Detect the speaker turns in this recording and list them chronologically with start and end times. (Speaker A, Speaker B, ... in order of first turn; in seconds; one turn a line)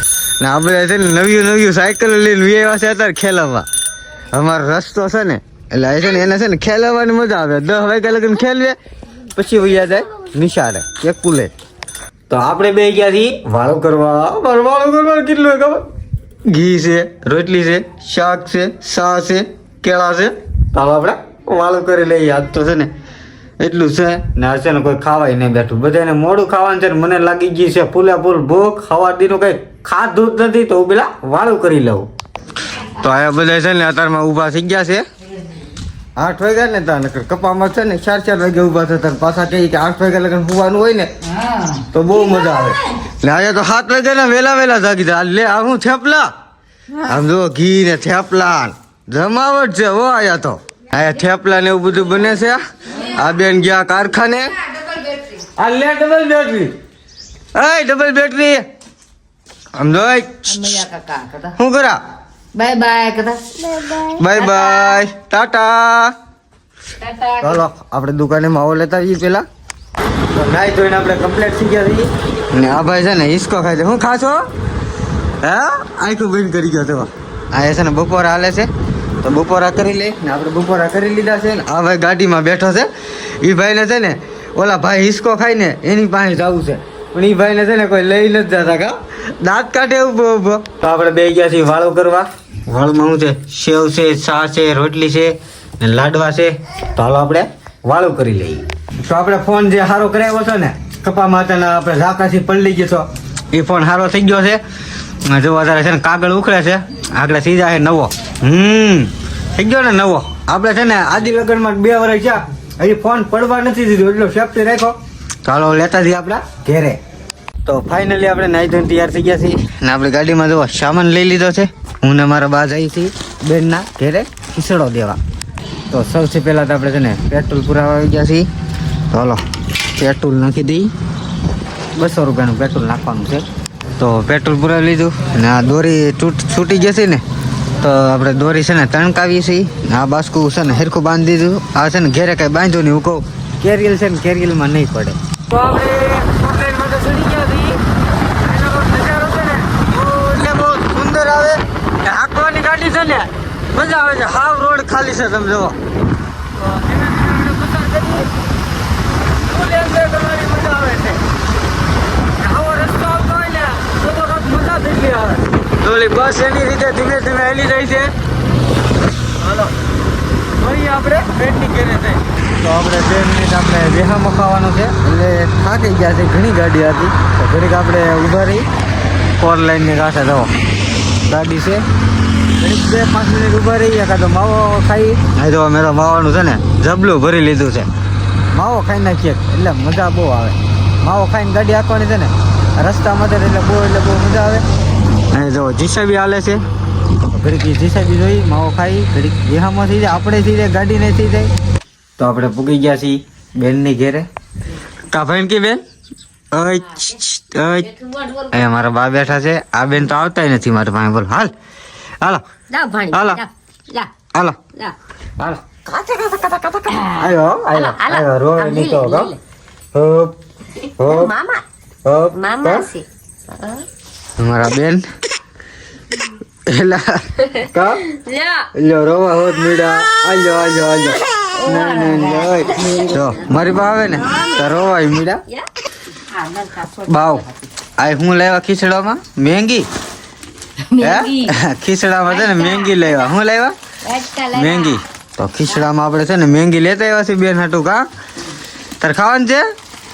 Speaker A: 0.4-3.7
Speaker A: 4.3-8.8
Speaker A: 9.3-11.5
Speaker A: 12.3-15.9
Speaker A: 16.5-22.9
Speaker A: 23.6-32.1
Speaker A: 32.8-35.0
Speaker A: 36.2-41.1
Speaker A: 41.7-46.3
Speaker A: 47.0-54.6
Speaker A: 55.4-56.7
Speaker A: 57.5-58.6
Speaker A: 59.8-60.9
Speaker B: 60.6-61.5
Speaker A: 61.4-62.0
Speaker B: 62.5-65.0
Speaker A: 64.1-66.2
Speaker B: 67.0-67.6
Speaker A: 67.3-69.5
Speaker A: 70.3-74.4
Speaker A: 75.4-78.7
Speaker A: 79.2-104.6
Speaker A: 105.2-117.0
Speaker A: 117.7-125.2
Speaker A: 125.9-128.5
Speaker A: 129.1-129.4
Speaker A: 129.9-130.9
Speaker A: 132.0-133.4
Speaker A: 134.0-137.2
Speaker A: 137.8-147.8
Speaker A: 148.4-155.8
Speaker A: 156.6-158.3
Speaker A: 159.5-161.2
Speaker A: 162.4-168.1
Speaker A: 169.4-169.7
Speaker A: 170.6-178.7
Speaker A: 179.4-180.6
Speaker A: 181.3-181.8
Speaker A: 182.6-187.9
Speaker A: 188.5-194.7
Speaker A: 195.3-196.6
Speaker A: 197.2-201.5
Speaker A: 202.2-204.3
Speaker A: 205.1-205.8
Speaker A: 206.5-207.9
Speaker B: 207.9-208.6
Speaker A: 208.5-211.5
Speaker B: 212.7-214.1
Speaker A: 213.1-213.4
Speaker A: 215.4-215.7
Speaker B: 215.8-219.4
Speaker A: 217.1-219.3
Speaker A: 219.9-220.3
Speaker B: 220.9-221.7
Speaker A: 221.0-221.3
Speaker A: 222.1-222.9
Speaker B: 222.3-223.8
Speaker A: 224.4-225.1
Speaker A: 226.7-228.1
Speaker B: 228.1-228.7
Speaker A: 228.7-235.4
Speaker B: 231.4-233.3
Speaker B: 234.3-234.6
Speaker B: 235.5-237.7
Speaker A: 237.1-237.5
Speaker A: 238.0-239.9
Speaker B: 240.9-241.6
Speaker A: 241.0-243.8
Speaker B: 242.3-243.2
Speaker B: 244.0-245.0
Speaker A: 244.5-248.1
Speaker A: 249.0-249.7